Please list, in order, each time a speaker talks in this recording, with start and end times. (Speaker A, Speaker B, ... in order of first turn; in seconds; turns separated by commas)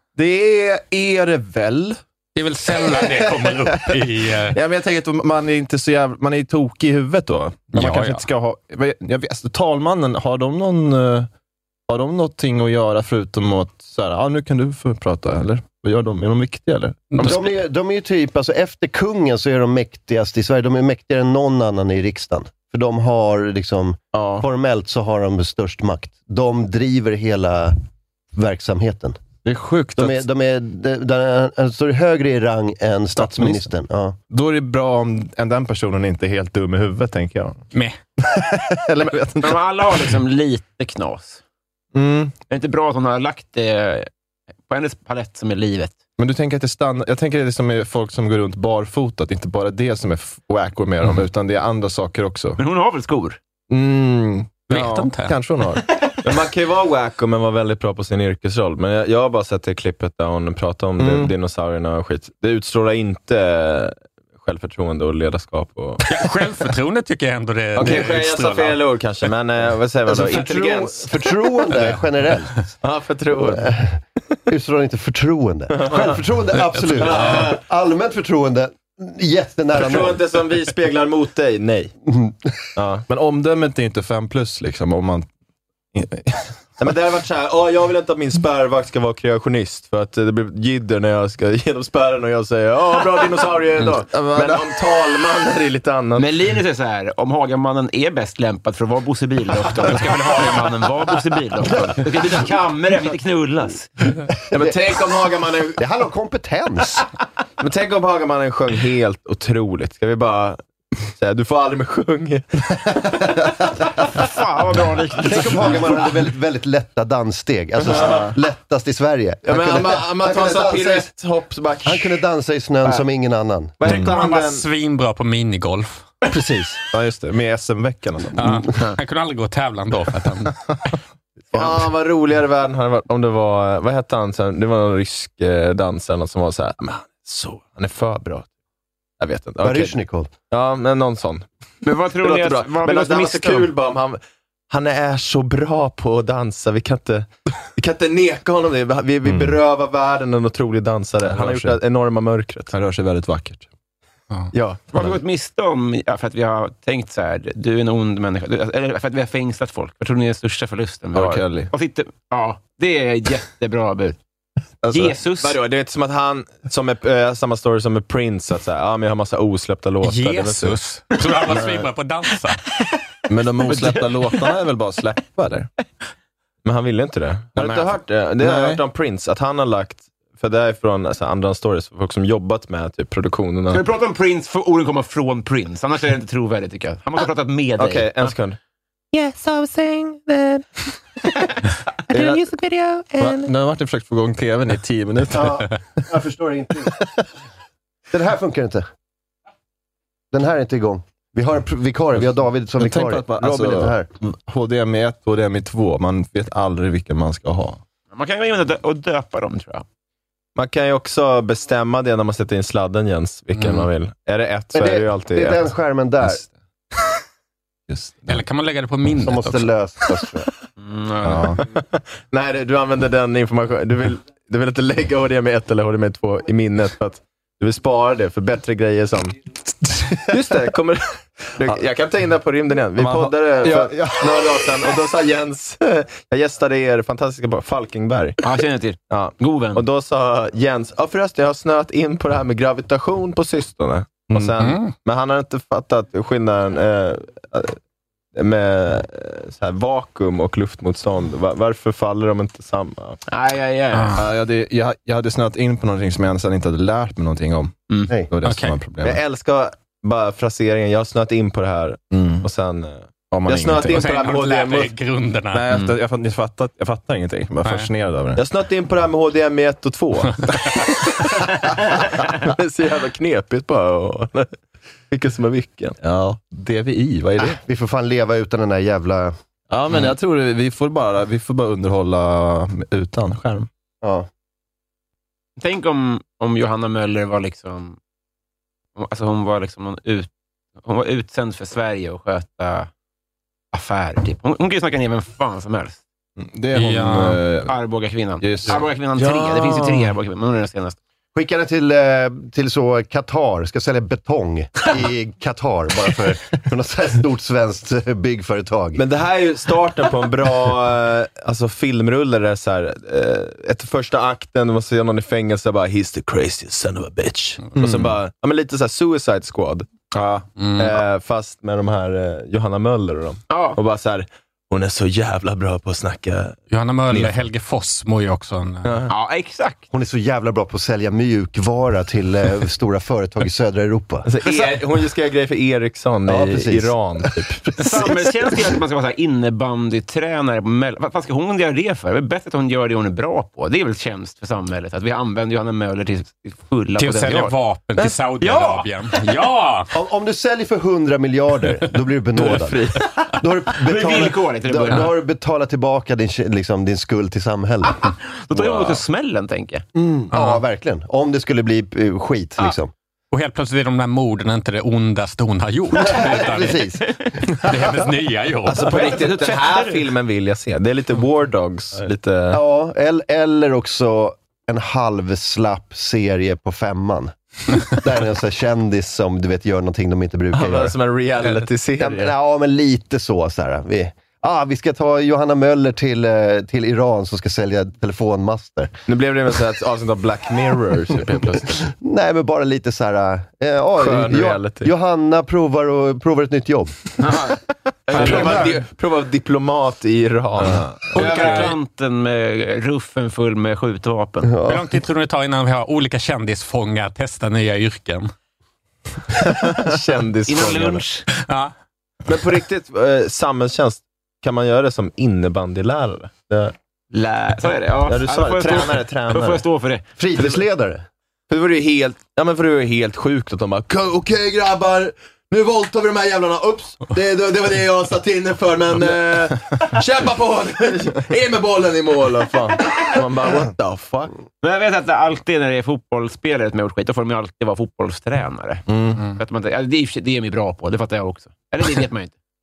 Speaker A: 0.2-2.0, Speaker B: 2.4-4.6, Speaker A: 4.5-11.3, Speaker B: 7.8-8.3, Speaker A: 11.9-17.4, Speaker C: 17.2-27.8, Speaker A: 24.1-24.4, Speaker C: 28.4-29.2, Speaker A: 29.4-30.2, Speaker C: 30.0-34.2, Speaker A: 33.2-33.6, Speaker A: 34.3-37.6, Speaker B: 37.7-38.0, Speaker A: 38.3-39.5, Speaker D: 39.4-41.4, Speaker A: 41.9-42.3, Speaker D: 42.5-44.1, Speaker D: 44.7-46.0, Speaker A: 46.2-52.6, Speaker D: 52.6-53.4, Speaker A: 53.7-55.9, Speaker B: 54.7-55.4, Speaker E: 56.2-66.1, Speaker A: 61.0-61.3, Speaker B: 66.0-68.8, Speaker E: 67.8-71.1, Speaker A: 67.8-68.1, Speaker C: 70.1-72.7, Speaker E: 72.8-73.7, Speaker C: 73.4-80.2, Speaker E: 75.8-76.0, Speaker E: 76.9-77.6, Speaker E: 79.8-81.9, Speaker C: 82.1-82.5, Speaker E: 82.8-83.1, Speaker A: 83.1-85.3, Speaker A: 85.9-86.5, Speaker E: 86.8-96.3, Speaker A: 93.2-95.3, Speaker D: 96.2-103.9, Speaker C: 104.5-104.8, Speaker A: 104.5-105.1, Speaker E: 104.5-105.8, Speaker C: 105.8-107.1, Speaker E: 107.6-113.3, Speaker D: 114.1-116.2, Speaker C: 115.2-121.1, Speaker E: 117.9-118.3, Speaker E: 119.5-122.2, Speaker C: 121.8-123.8, Speaker E: 123.8-124.7, Speaker A: 123.8-124.2, Speaker B: 124.0-126.1, Speaker C: 126.3-126.8, Speaker E: 126.9-127.3, Speaker A: 127.0-128.6, Speaker B: 128.3-130.6, Speaker E: 131.5-138.5, Speaker E: 139.2-139.9, Speaker C: 139.6-140.3, Speaker E: 140.5-141.4, Speaker D: 141.8-143.7, Speaker E: 142.1-152.7, Speaker A: 149.2-149.6, Speaker A: 151.2-151.8, Speaker A: 152.7-153.7, Speaker E: 154.5-155.0, Speaker D: 154.9-164.2, Speaker A: 161.2-161.7, Speaker E: 164.8-170.8, Speaker D: 164.9-165.6, Speaker B: 170.0-172.6, Speaker A: 171.4-171.8, Speaker A: 173.3-175.7, Speaker E: 176.6-183.8, Speaker A: 177.6-178.8, Speaker D: 183.7-188.3, Speaker E: 187.8-188.6, Speaker E: 189.1-190.7, Speaker E: 192.1-193.5, Speaker A: 192.2-192.4, Speaker A: 193.2-195.8, Speaker C: 195.3-196.9, Speaker C: 198.1-198.9, Speaker C: 200.3-204.1, Speaker A: 202.8-207.8, Speaker D: 208.1-209.8, Speaker E: 210.6-215.7, Speaker B: 213.6-213.9, Speaker C: 214.7-216.4, Speaker A: 217.9-218.4, Speaker B: 218.3-219.7, Speaker C: 219.2-220.5, Speaker D: 220.8-221.7, Speaker A: 221.3-221.6, Speaker E: 221.8-229.4, Speaker E: 230.1-238.4, Speaker A: 233.0-234.7, Speaker D: 238.4-239.8, Speaker E: 239.1-247.8, Speaker A: 244.3-244.6, Speaker B: 244.6-244.9, Speaker E: 248.3-253.2, Speaker D: 253.3-254.2, Speaker B: 253.9-254.2, Speaker A: 254.2-257.8, Speaker A: 258.3-259.2, Speaker B: 258.4-258.8, Speaker E: 259.0-264.9, Speaker A: 262.1-262.5, Speaker A: 263.3-264.2, Speaker B: 263.8-265.6, Speaker A: 265.5-268.4, Speaker E: 268.4-274.5, Speaker E: 275.1-276.0, Speaker A: 276.0-277.5, Speaker C: 277.4-279.3, Speaker A: 279.7-283.7, Speaker C: 284.0-284.3, Speaker D: 285.6-288.0, Speaker D: 288.9-290.3, Speaker D: 290.8-292.9, Speaker D: 293.7-296.0, Speaker A: 296.4-297.7, Speaker B: 296.7-297.4, Speaker D: 297.7-301.0, Speaker A: 298.4-298.8, Speaker E: 299.2-299.6, Speaker C: 301.3-309.0, Speaker E: 308.9-326.6, Speaker A: 317.8-318.2, Speaker B: 320.6-321.0, Speaker D: 323.5-323.8, Speaker B: 326.7-328.9, Speaker E: 327.1-327.4, Speaker E: 328.9-329.1, Speaker D: 329.1-329.8, Speaker C: 329.9-334.3, Speaker E: 334.2-338.2, Speaker C: 336.3-337.4, Speaker D: 337.8-347.6, Speaker B: 347.0-349.9, Speaker E: 348.0-348.8, Speaker C: 349.9-358.0, Speaker E: 352.4-353.0, Speaker D: 353.8-355.2, Speaker D: 358.2-359.8, Speaker C: 359.9-362.9, Speaker B: 360.3-360.6, Speaker B: 363.3-366.8, Speaker C: 365.9-367.2, Speaker B: 367.5-369.1, Speaker E: 368.6-372.6, Speaker D: 368.9-370.0, Speaker C: 372.5-380.9, Speaker E: 380.5-382.3, Speaker C: 382.0-388.9, Speaker E: 389.1-391.8, Speaker C: 391.9-397.0, Speaker E: 394.0-394.9, Speaker D: 397.2-398.7, Speaker E: 398.1-401.8, Speaker A: 400.6-401.7, Speaker D: 401.1-404.5, Speaker C: 404.5-404.9, Speaker B: 404.6-408.3, Speaker E: 409.7-411.1, Speaker D: 410.5-411.3, Speaker B: 411.4-411.7, Speaker E: 412.3-416.7, Speaker D: 417.1-420.0, Speaker E: 418.1-419.6, Speaker C: 420.2-421.1, Speaker E: 421.5-430.1, Speaker A: 424.4-424.9, Speaker A: 425.6-432.6, Speaker E: 432.1-434.3, Speaker A: 433.1-433.6, Speaker D: 434.6-438.8, Speaker A: 438.9-439.2, Speaker D: 439.4-442.3